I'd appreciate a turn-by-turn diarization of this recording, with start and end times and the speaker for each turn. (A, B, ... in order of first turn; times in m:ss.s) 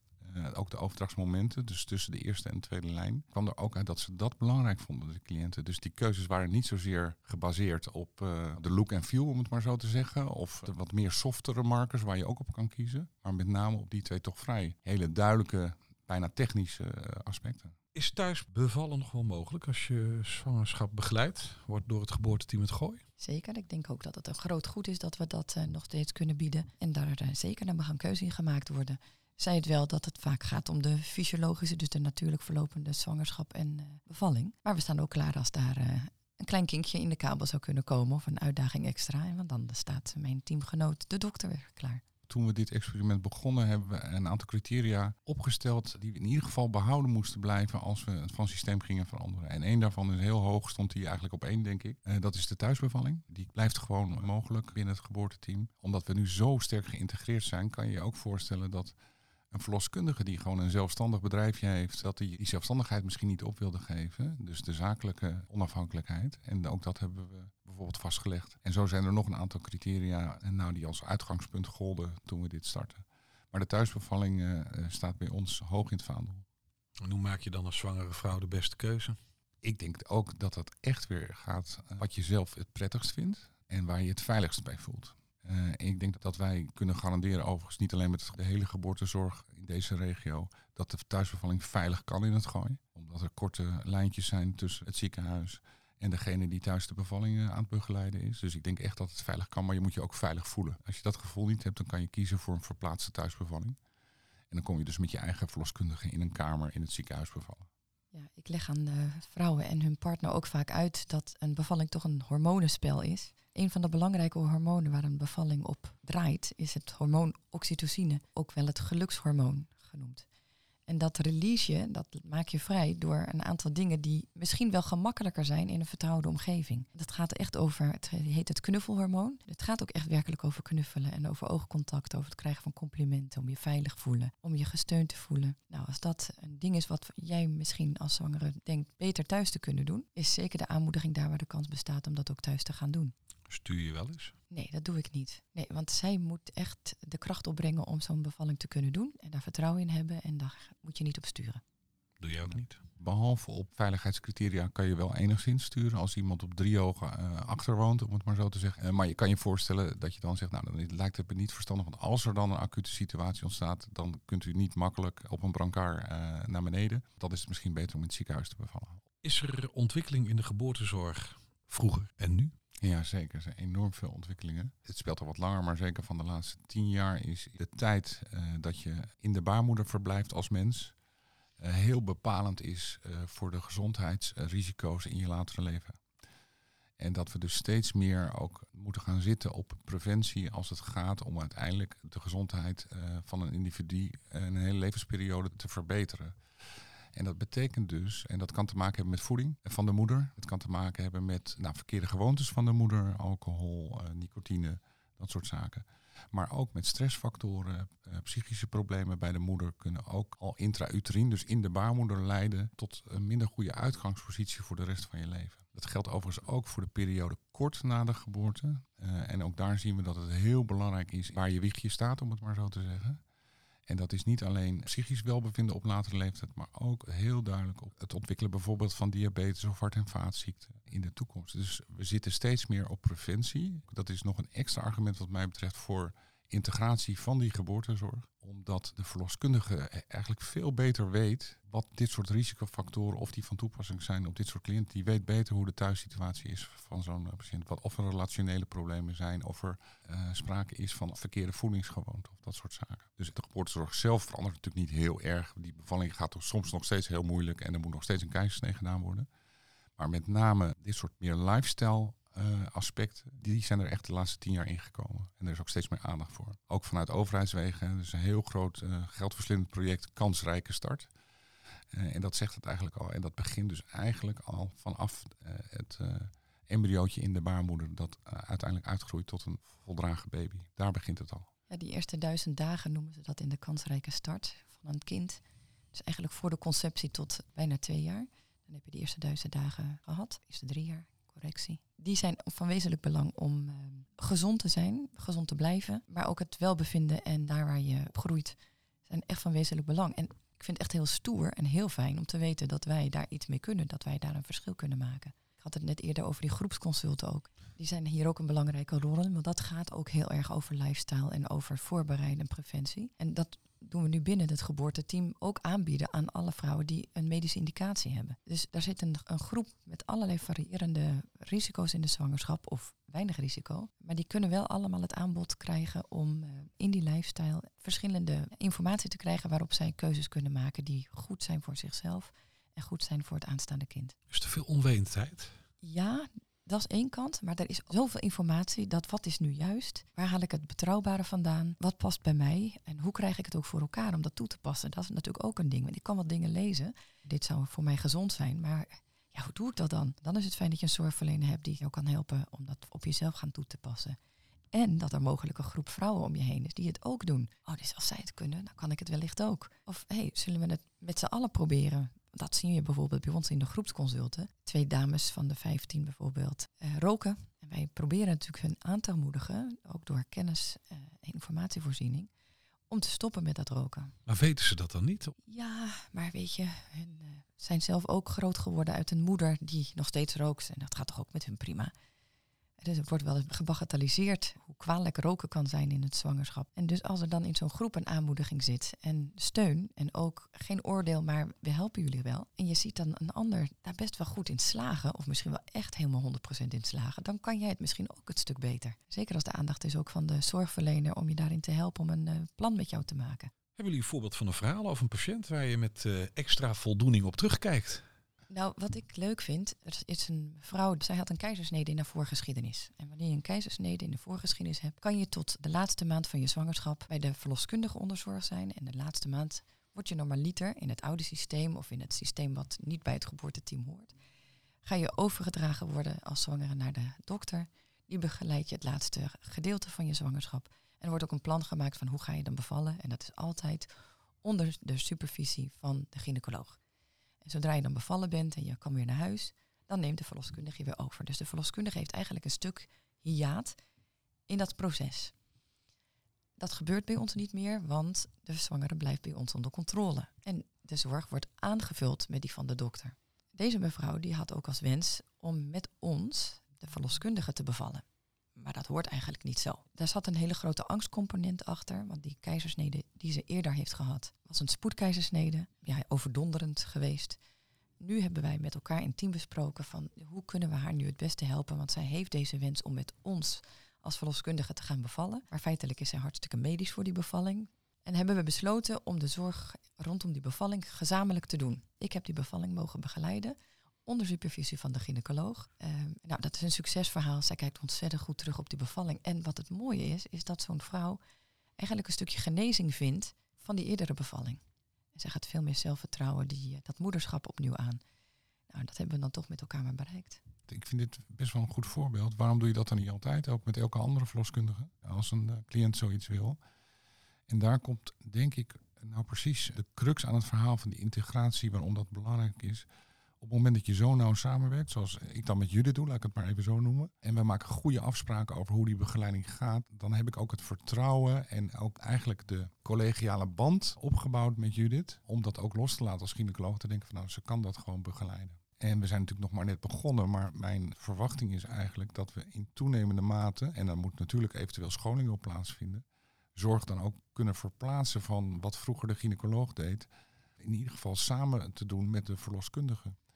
0:00.2-0:17.7 A
0:17.9-0:23.0 B
0:23.2-0:42.0 C
0:42.3-0:58.9 A
0:59.5-1:16.4 A
1:17.0-1:19.2 B
1:19.6-1:43.8 A
1:44.5-1:47.7 A
1:48.1-2:00.2 C
2:00.9-2:23.1 C
2:23.5-2:24.3 B
2:24.5-2:31.6 C
2:32.2-2:32.8 B
2:33.0-2:49.0 A
2:49.2-2:52.5 B
2:52.8-3:00.9 A
3:01.6-3:06.0 A
3:07.0-3:16.4 A
3:17.1-3:43.2 A
3:43.9-4:19.3 A
4:20.0-4:31.1 A
4:31.9-4:41.5 A
4:41.7-4:45.4 C
4:45.9-5:34.1 C
5:34.3-5:35.6 B
5:35.8-5:54.2 C
5:54.7-6:12.3 C
6:12.9-6:14.1 C
6:14.2-6:15.3 B
6:15.4-6:21.9 C
6:22.8-6:43.5 C
6:43.8-6:48.0 B
6:48.5-7:04.1 C
7:04.8-7:13.9 C
7:14.4-7:16.8 C
7:17.4-7:23.8 C
7:24.5-7:25.3 C
7:26.6-7:38.0 C
7:38.6-7:47.4 C
7:48.0-8:11.2 C
8:11.8-8:14.6 C
8:15.1-8:18.0 C
8:18.7-8:20.4 C
8:20.7-8:26.6 A
8:27.5-8:32.8 A
8:33.4-9:00.1 A
9:00.6-9:03.2 A